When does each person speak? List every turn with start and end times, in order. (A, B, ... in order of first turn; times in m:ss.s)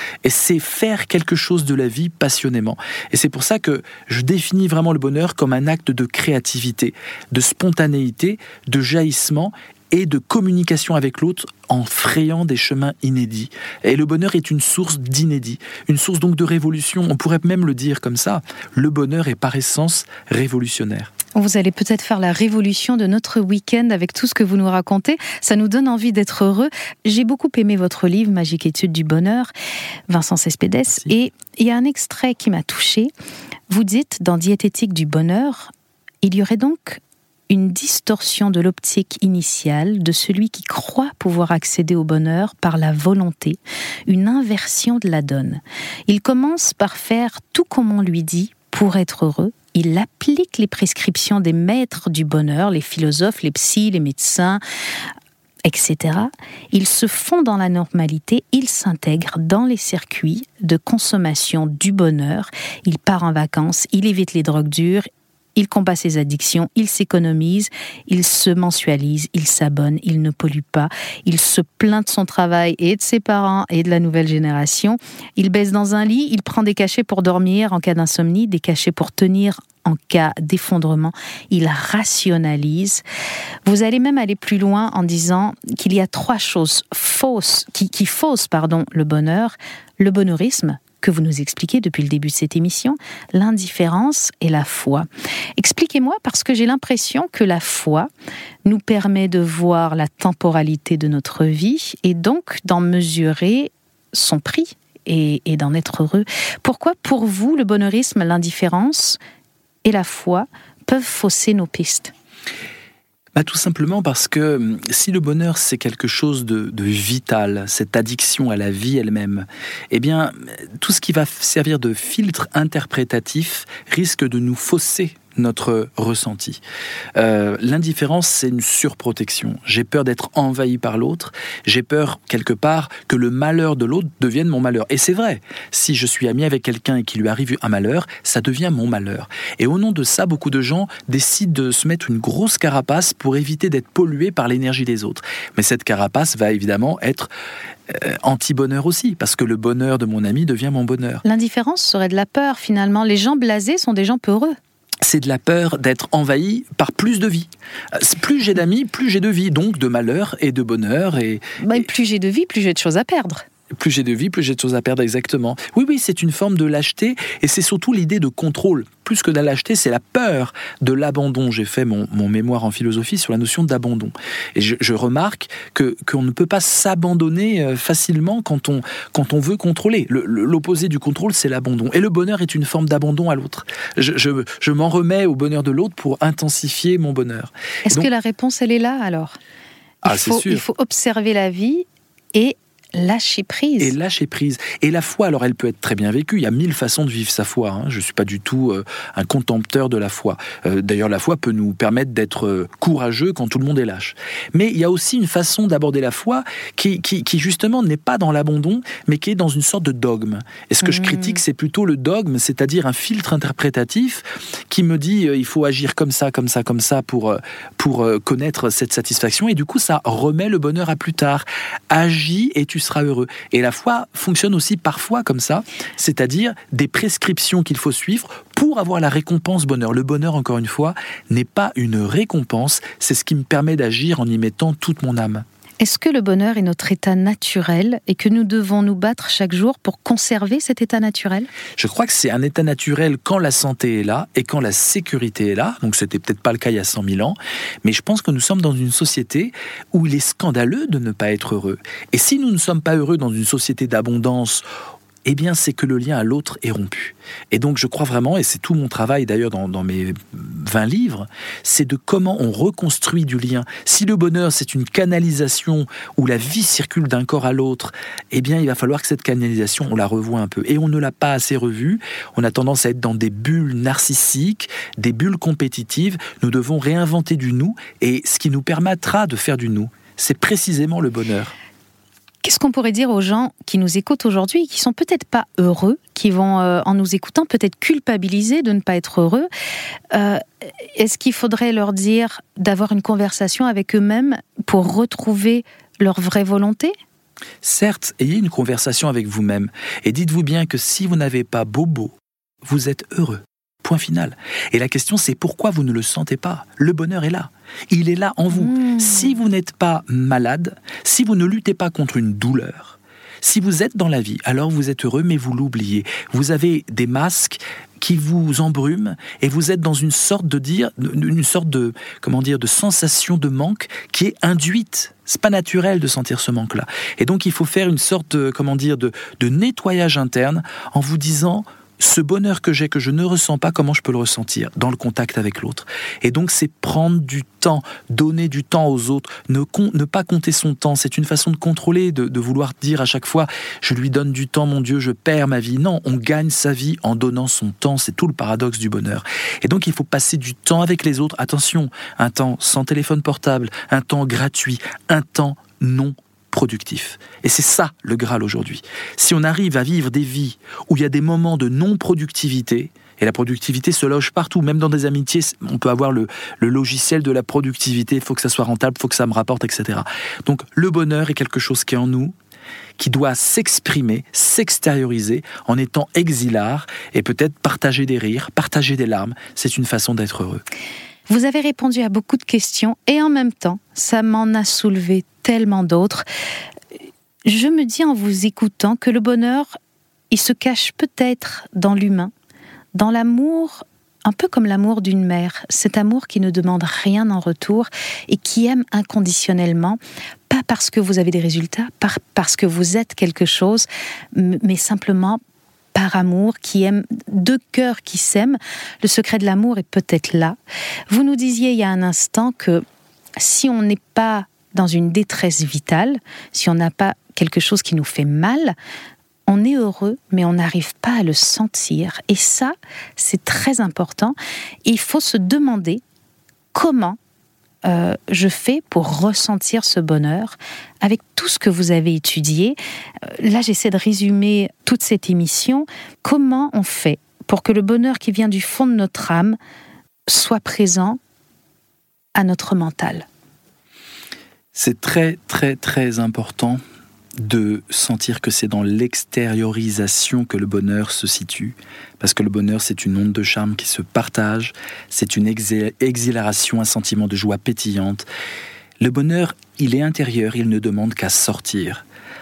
0:00.2-0:21.1 A
0:21.3-0:29.5 B
0:30.1-0:33.1 B
0:33.7-0:35.7 B
0:36.2-0:54.6 B
0:55.6-1:23.0 B
1:23.6-1:38.1 B
1:38.6-1:49.2 B
1:49.8-1:52.1 B
1:53.3-2:06.6 A
2:07.2-2:27.3 A
2:27.9-2:31.2 A
2:31.2-2:34.6 B
2:35.0-2:41.8 A
2:41.6-2:43.4 B
2:43.7-3:08.1 A
3:07.8-3:09.4 B
3:10.0-3:10.6 A
3:10.0-3:13.9 B
3:13.8-3:55.4 A
3:30.8-3:31.4 B
3:55.8-4:01.5 B
4:01.8-4:14.6 A
4:15.2-4:41.5 A
4:42.4-4:49.5 B
4:50.1-4:56.9 B
4:57.6-6:12.3 A
5:08.6-5:09.2 B
6:13.0-6:20.6 A
6:21.3-6:26.2 B
6:27.4-6:29.8 B
6:30.3-6:32.3 B
6:32.9-6:40.0 B
6:40.5-6:45.4 B
6:45.9-6:50.6 B
6:51.1-6:52.8 B
6:53.4-6:58.7 B
6:59.5-7:06.0 B
7:06.7-7:07.2 B
7:07.8-7:12.8 B
7:13.3-7:19.6 B
7:20.3-7:21.2 B
7:22.3-7:23.2 B
7:24.7-7:26.8 A
7:27.4-7:38.2 A
7:39.0-7:42.0 A